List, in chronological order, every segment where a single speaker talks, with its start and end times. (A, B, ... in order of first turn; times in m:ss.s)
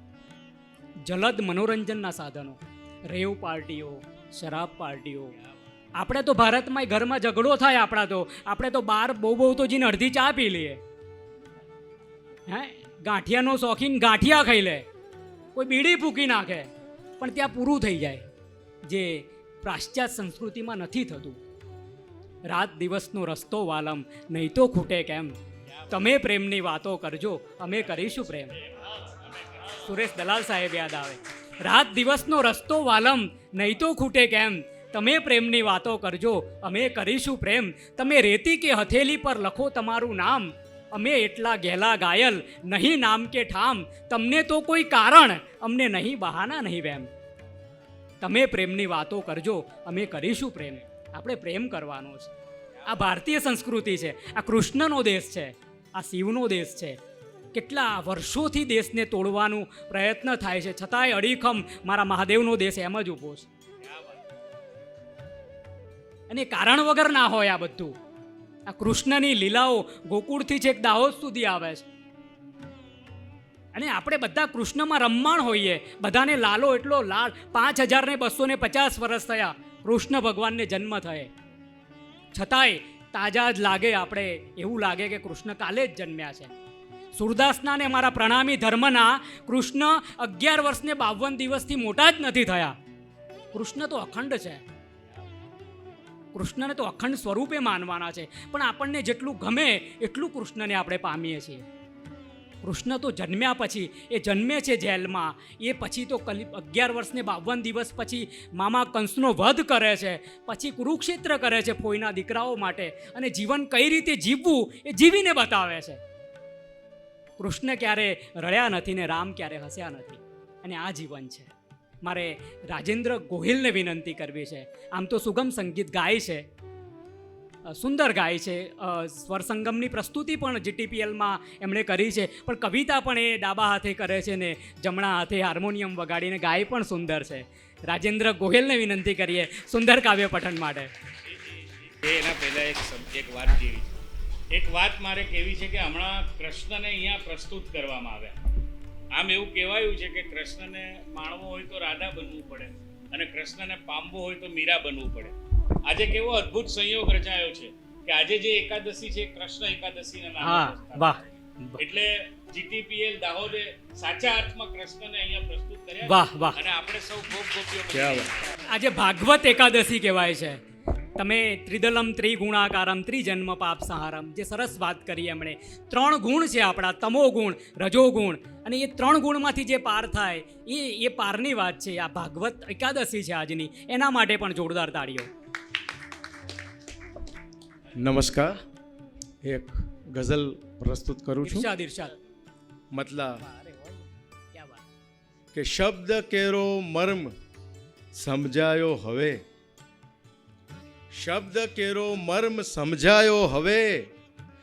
0:01.0-0:05.3 A
0:06.0-0:10.8 A
0:12.5-0:14.9 A
0:15.6-0:18.3 A
0:18.8-0:21.4 A
0:22.5-0:25.4 A
0:25.9-0:28.6 A
0:29.8-0:47.1 A
0:48.2-0:52.3 A
0:52.9-0:57.0 A
0:57.5-1:03.5 A
1:03.8-1:04.2 B
1:06.3-1:08.0 A
1:08.7-1:11.9 A
1:13.7-1:21.3 A
1:22.3-1:26.5 A
1:27.1-1:32.8 A
1:33.5-1:34.6 A
1:36.3-1:41.7 A
1:42.6-1:56.0 A
1:57.4-2:01.5 A
2:02.0-2:06.5 A
2:07.7-2:20.9 A
2:21.3-2:23.9 B
2:24.5-2:28.4 B
2:29.1-2:41.2 B
2:40.4-2:41.8 A
2:41.8-2:48.4 B
2:46.0-2:46.6 A
2:47.9-2:48.3 C
2:48.7-2:50.6 A
2:51.2-3:05.3 A
3:08.0-3:08.6 C
3:09.4-3:11.7 C
3:11.4-3:12.2 A
3:12.9-3:13.4 C
3:13.4-3:14.8 A
3:15.5-3:17.3 C
3:18.1-3:19.4 C
3:21.1-3:24.1 C